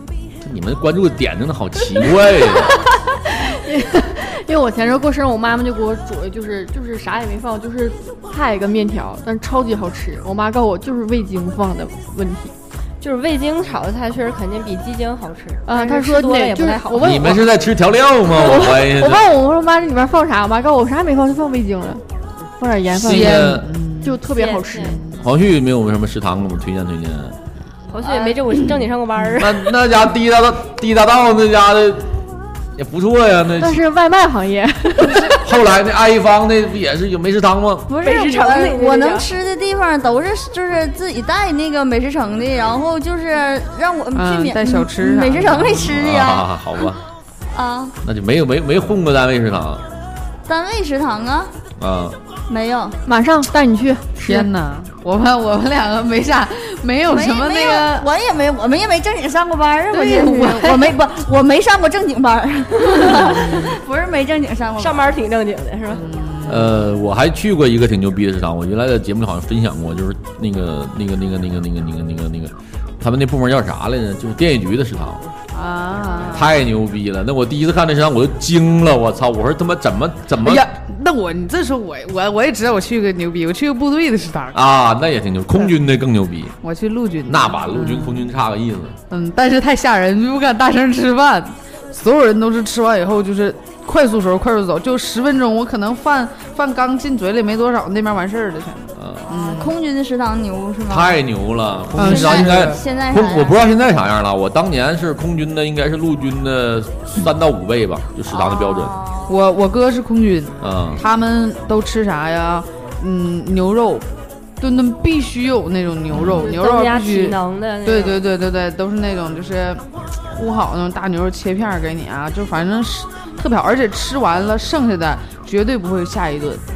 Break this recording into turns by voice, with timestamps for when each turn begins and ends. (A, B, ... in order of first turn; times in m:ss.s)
0:00.4-0:02.8 A
0:03.3-0:12.5 B
0:13.0-0:17.1 C
0:15.6-0:17.4 B
0:17.0-0:19.2 A
0:18.3-0:22.0 B
0:22.6-0:25.0 B
0:23.0-0:23.7 A
0:23.0-0:24.2 D
0:24.3-0:25.0 C
0:24.8-0:25.2 D
0:25.2-0:27.4 A
0:27.9-0:29.7 C
0:29.4-0:32.1 A
0:32.8-0:33.8 A
0:33.6-0:35.4 B
0:35.4-0:37.9 A
0:37.9-0:46.9 E
0:38.0-0:39.3 C
0:44.1-0:45.9 D
0:45.8-0:47.0 A
0:47.5-0:47.9 E
0:48.0-0:49.8 A
0:50.4-0:51.5 E
0:51.8-0:52.2 A
0:52.5-0:53.0 E
0:53.0-0:54.5 B
0:54.2-0:58.1 D
0:57.0-1:05.1 E
0:59.9-1:00.9 D
1:03.0-1:03.8 D
1:04.8-1:06.0 C
1:05.9-1:06.8 D
1:06.4-1:15.2 A
1:15.5-1:16.5 D
1:16.3-1:20.6 A
1:20.4-1:24.6 D
1:24.5-1:26.6 A
1:26.6-1:28.3 D
1:27.3-1:29.0 A
1:29.1-1:39.7 D
1:39.0-1:39.3 A
1:39.3-1:41.2 E
1:40.9-1:48.9 A
1:41.9-1:42.8 D
1:42.0-1:43.6 E
1:48.3-1:49.3 E
1:49.3-1:54.1 D
1:50.6-1:51.0 A
1:54.6-2:06.6 D
1:56.1-1:56.5 A
1:56.4-1:58.2 C